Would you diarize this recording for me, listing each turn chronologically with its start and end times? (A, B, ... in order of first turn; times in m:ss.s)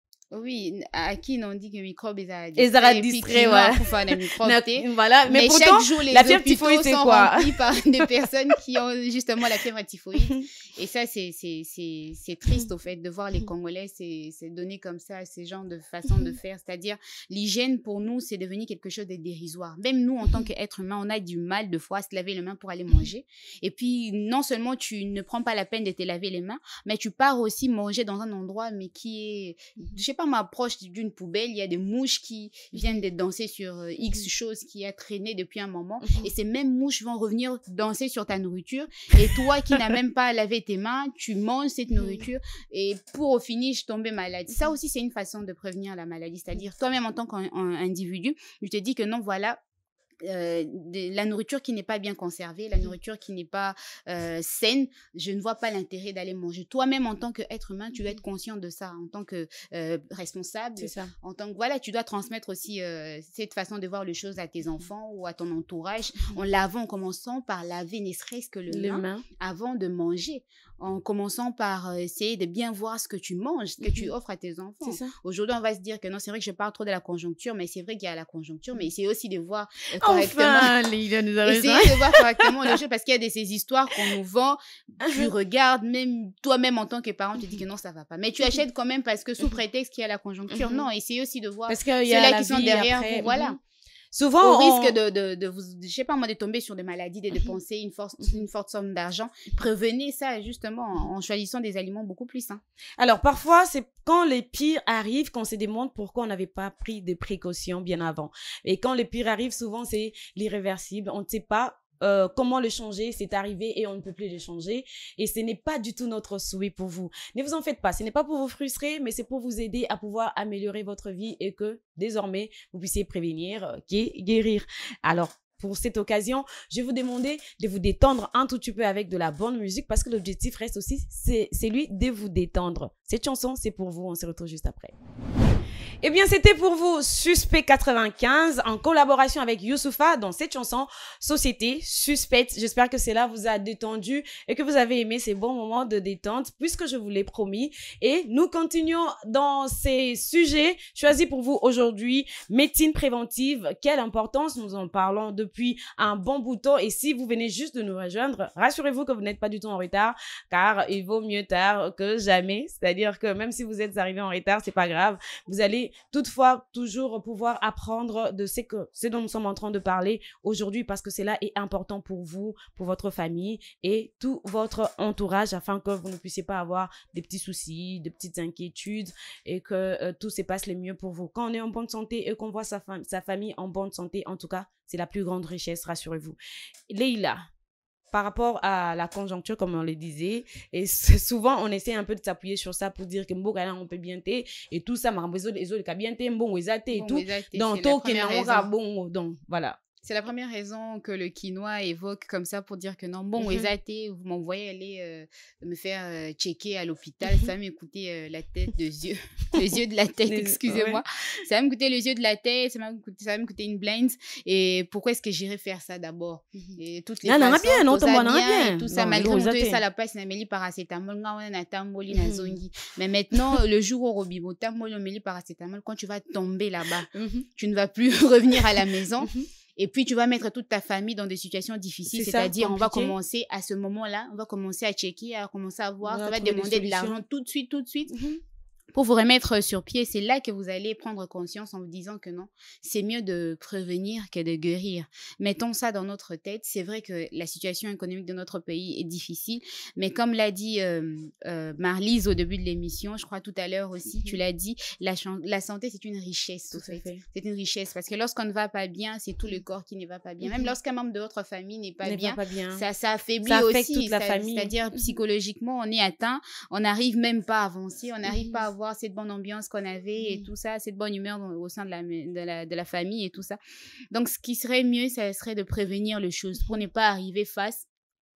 0:00.3-0:49.6 A
0:02.6-0:07.8 B
0:10.2-0:10.4 B
0:32.7-0:33.0 B
0:42.0-0:42.2 B
0:50.2-1:20.8 A
1:00.8-1:01.1 B
1:08.7-1:09.2 B
1:13.8-1:14.1 B
1:14.8-1:15.1 B
1:20.0-1:22.7 B
1:21.4-1:33.6 A
1:25.0-1:25.3 B
1:30.5-1:30.8 B
1:31.7-1:33.6 B
1:34.1-1:34.9 B
1:34.4-1:42.6 A
1:43.0-2:14.9 B
2:16.0-3:06.4 B
3:06.9-3:07.4 B
3:08.1-3:19.8 B
3:16.9-3:18.7 A
3:20.0-3:58.2 A
3:23.4-3:23.7 B
3:30.3-3:31.0 B
3:36.6-3:39.8 B
3:42.1-3:42.6 B
3:47.1-3:47.4 B
3:52.1-3:53.1 B
3:56.1-3:57.2 B
3:58.1-3:58.4 B
3:58.9-4:33.6 A
4:16.7-4:17.2 B
4:20.4-4:20.7 B
4:22.0-4:22.8 B
4:23.4-4:25.0 B
4:28.3-4:28.6 B
4:30.2-4:30.5 B
4:34.1-4:37.8 A